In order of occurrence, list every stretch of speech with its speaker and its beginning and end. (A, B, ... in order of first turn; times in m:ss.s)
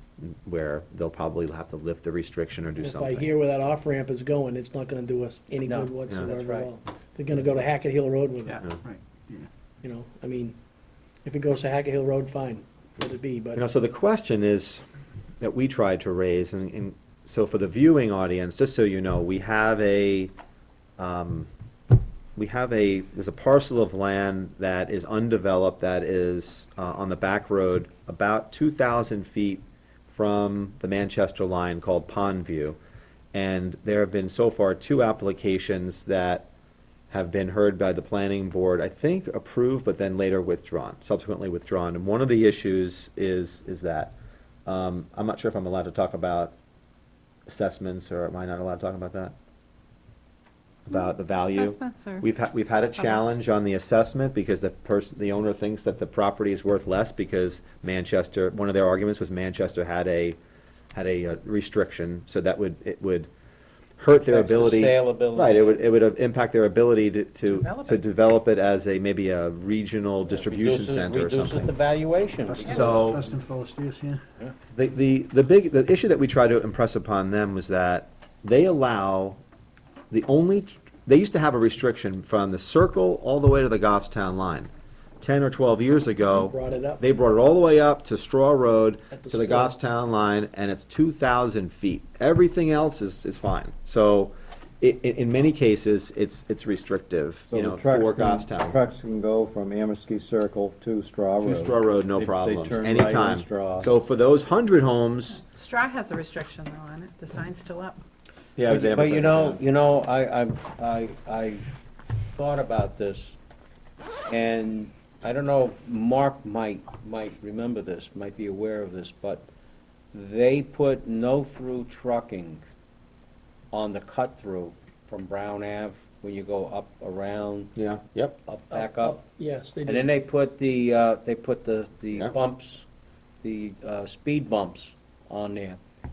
0:00.2-0:03.3 A
0:02.8-0:08.6 B
0:05.6-0:06.7 C
0:08.8-0:09.5 D
0:09.8-0:10.6 B
0:11.2-0:13.6 B
0:13.6-0:14.8 A
0:15.4-0:20.3 A
0:21.0-0:21.5 A
0:22.4-0:32.8 A
0:33.3-0:36.5 A
0:37.1-0:44.1 A
0:44.7-0:46.6 A
0:47.5-0:49.3 A
0:50.9-1:00.4 A
0:51.5-0:52.3 E
0:53.0-0:53.2 E
1:00.9-1:03.3 A
1:04.0-1:11.7 A
1:04.1-1:05.8 C
1:07.5-1:08.0 E
1:10.3-1:13.4 C
1:12.5-1:14.2 D
1:12.7-1:13.3 A
1:14.7-1:19.4 A
1:20.1-1:24.7 A
1:25.2-1:38.8 A
1:26.3-1:27.0 B
1:29.1-1:29.7 B
1:37.5-1:43.9 F
1:41.4-1:45.4 A
1:45.4-1:48.0 E
1:48.6-1:49.6 A
1:48.7-1:51.6 C
1:52.3-1:53.4 C
1:54.3-1:59.5 C
2:00.1-2:02.6 C
2:03.7-2:07.7 C
2:07.8-2:08.4 A
2:08.5-2:09.2 C
2:08.7-2:10.1 B
2:09.8-2:12.8 C
2:13.4-2:15.8 C